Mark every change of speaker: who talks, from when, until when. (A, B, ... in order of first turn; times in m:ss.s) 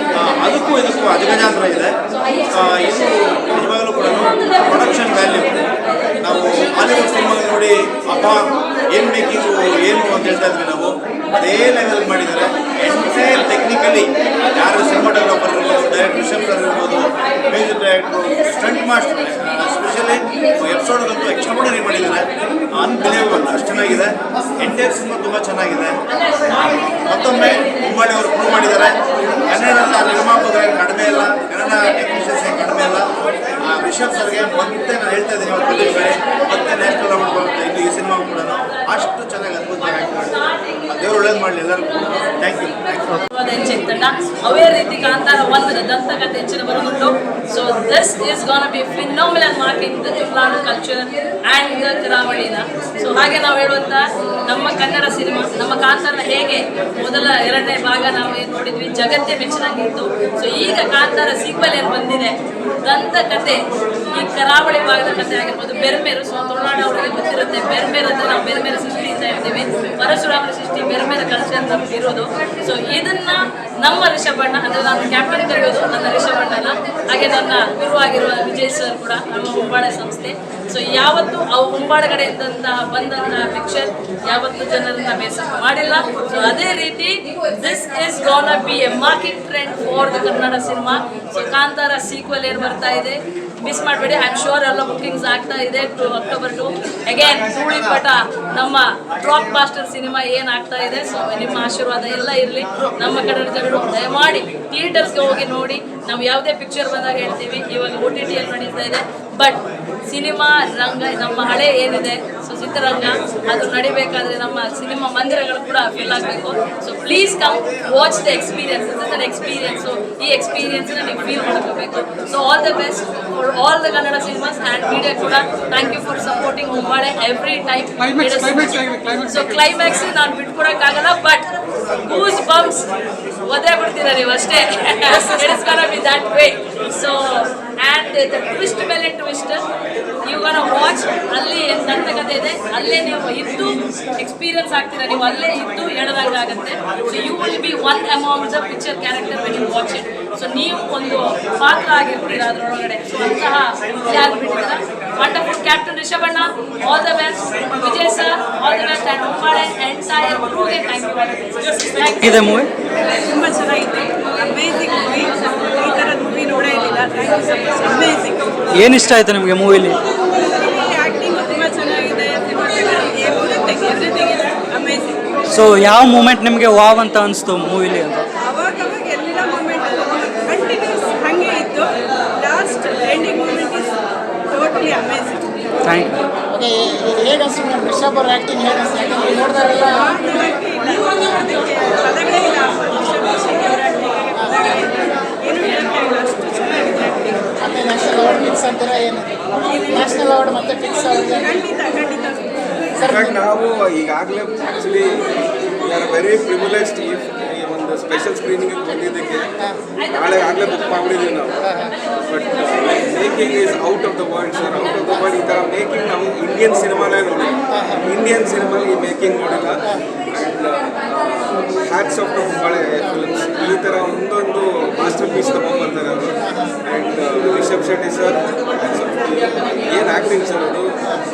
0:00.2-0:01.9 A
0:02.2-0:02.7 B
0:02.5-0:05.6 A
0:04.4-0:05.5 B
0:06.2-0:08.4 A
0:08.9-0:26.0 A
0:26.1-0:27.6 B
0:27.0-0:42.7 A
0:28.6-0:28.9 B
0:35.7-0:38.8 B
0:40.0-0:41.4 B
0:42.1-1:03.6 B
1:04.1-2:11.5 B
2:08.0-2:09.1 C
2:12.0-2:12.9 B
2:13.4-2:19.6 B
2:20.2-2:42.5 B
2:42.2-2:42.7 C
2:43.2-2:48.6 D
2:48.7-2:50.0 C
2:50.3-2:55.2 D
2:55.5-2:58.2 C
2:58.4-3:04.0 D
3:04.5-3:05.5 D
3:05.8-3:06.2 C
3:06.5-3:10.2 E
3:09.8-3:17.4 D
3:14.4-3:14.7 E
3:17.6-3:21.6 E
3:19.7-3:20.2 D
3:20.8-3:22.7 D
3:22.9-3:23.4 E
3:23.1-3:29.5 F
3:30.0-3:50.9 F
3:31.6-3:31.9 E
3:37.7-3:38.0 E
3:46.5-3:46.7 E